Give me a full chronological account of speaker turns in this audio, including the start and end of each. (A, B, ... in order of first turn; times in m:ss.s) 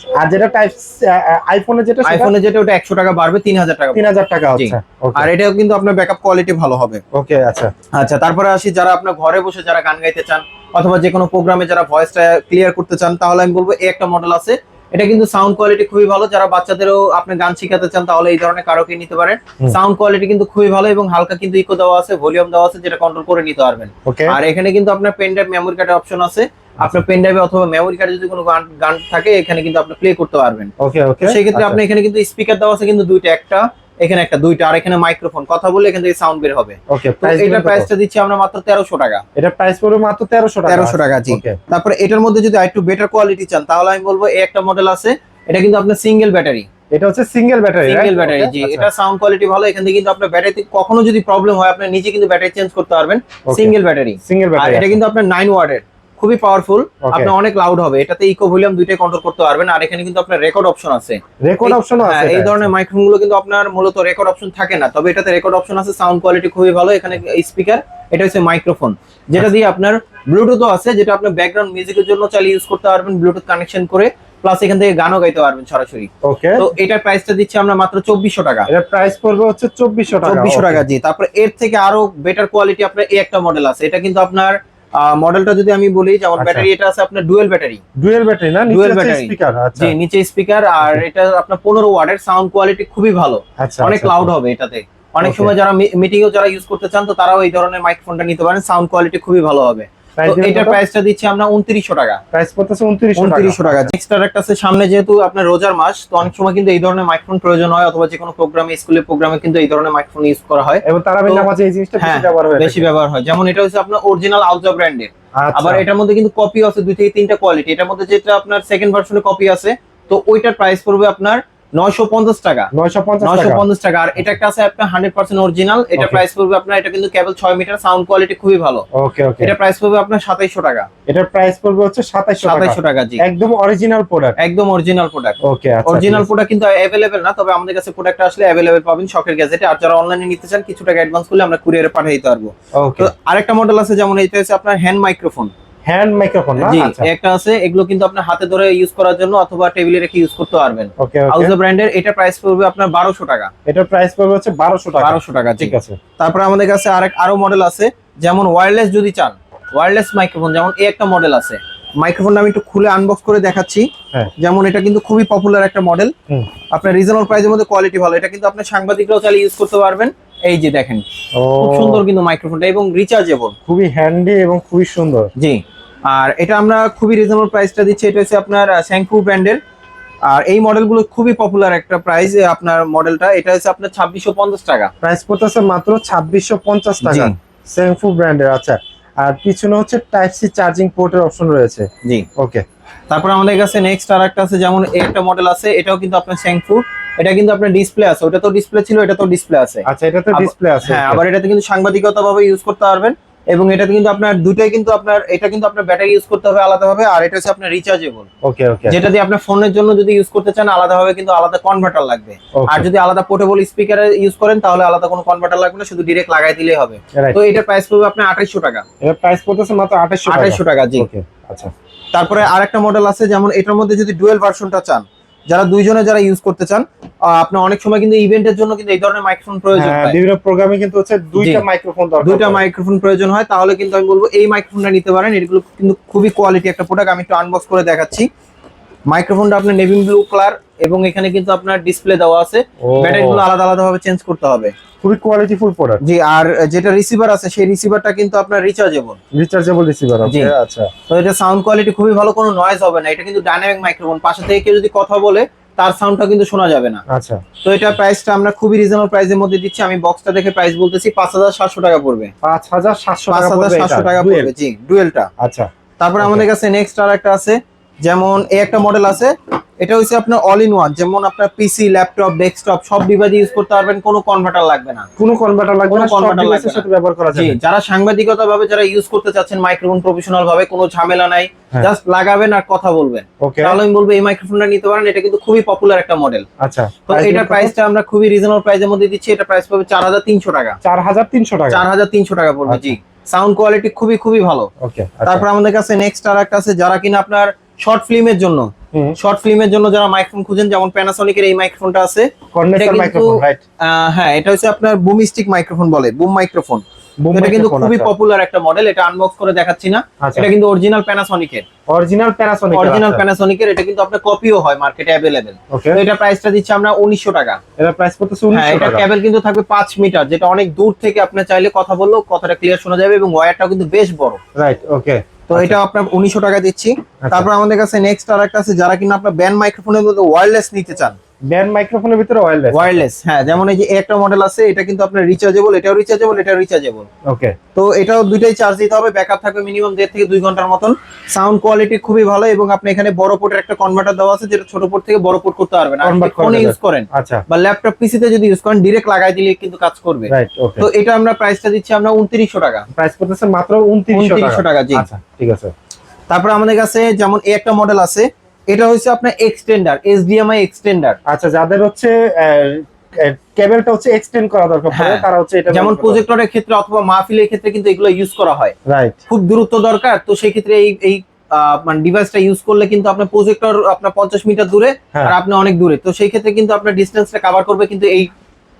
0:00.2-0:02.3 A
0:02.0-0:07.0 B
0:03.9-0:05.3 A
0:07.1-0:07.7 A
0:07.9-0:30.7 B
0:24.0-0:24.4 A
0:30.8-0:31.8 A
0:31.2-0:39.2 B
0:36.9-0:37.9 A
0:39.4-0:41.6 A
0:40.7-0:46.7 B
0:46.9-0:48.9 A
0:47.8-1:18.7 B
0:53.5-0:53.7 A
0:54.2-0:55.0 A
0:57.0-0:57.3 A
1:01.4-1:02.7 A
1:16.2-1:16.6 A
1:18.7-1:20.8 A
1:20.2-1:27.8 B
1:26.4-1:26.7 A
1:28.0-1:30.0 A
1:28.7-1:42.2 B
1:33.6-1:34.3 A
1:35.2-1:35.5 A
1:40.2-1:40.8 A
1:42.3-1:43.9 A
1:43.2-1:51.5 B
1:50.8-1:52.9 A
1:52.0-2:02.7 B
1:55.4-1:55.8 A
2:02.7-2:03.6 A
2:03.2-2:08.8 B
2:06.0-2:06.2 A
2:08.9-2:09.5 A
2:09.4-2:10.9 B
2:11.1-2:14.4 A
2:12.4-2:13.2 B
2:14.4-2:25.5 B
2:15.4-2:16.3 A
2:22.7-2:23.1 A
2:25.9-2:27.1 A
2:26.6-2:33.5 B
2:31.0-2:31.6 A
2:33.6-2:36.0 A
2:35.0-2:46.1 B
2:46.7-2:51.0 B
2:51.4-2:52.0 A
2:51.6-2:53.5 B
2:53.7-2:55.3 A
2:55.4-2:59.6 B
3:00.3-3:04.9 B
3:05.0-3:12.6 A
3:07.0-3:07.3 B
3:13.1-3:28.3 B
3:19.9-3:21.2 A
3:28.4-3:29.0 A
3:28.9-3:38.8 B
3:32.6-3:32.9 A
3:37.1-3:37.4 A
3:39.0-3:41.7 A
3:40.3-3:41.1 B
3:42.1-3:50.2 B
3:49.7-3:52.6 A
3:51.4-3:51.6 B
3:52.2-3:58.3 B
3:59.1-4:04.7 B
4:02.8-4:03.4 A
4:05.0-4:06.0 A
4:06.0-4:09.2 B
4:09.3-4:10.9 A
4:10.2-4:10.5 B
4:11.1-4:17.0 B
4:17.1-4:17.4 A
4:17.6-4:22.3 B
4:22.4-4:24.5 A
4:23.3-4:25.3 B
4:25.4-4:25.7 A
4:26.0-4:35.0 B
4:26.2-4:26.4 A
4:35.2-4:37.6 A
4:35.9-4:46.4 B
4:43.4-4:43.8 A
4:46.6-4:47.7 A
4:47.1-4:50.8 B
4:50.8-4:51.8 A
4:51.7-4:54.7 B
4:52.7-4:53.0 A
4:54.8-4:55.4 A
4:55.2-5:11.6 B
5:02.5-5:03.6 A
5:07.2-5:08.1 A
5:10.2-5:10.5 A
5:11.9-5:13.2 A
5:12.7-5:17.6 B
5:15.7-5:16.0 A
5:17.8-5:19.1 A
5:18.5-5:24.4 B
5:24.6-5:25.8 A
5:25.5-5:31.2 B
5:27.2-5:27.5 A
5:31.5-5:33.0 A
5:32.7-5:37.1 B
5:37.2-5:37.6 A
5:37.7-5:52.8 B
5:46.0-5:47.4 A
5:50.3-5:50.8 A
5:52.9-5:55.7 A
5:54.1-5:55.0 B
5:56.3-6:01.2 B
6:01.3-6:06.2 A
6:04.9-6:08.7 B
6:08.9-6:09.2 A
6:09.3-6:18.3 B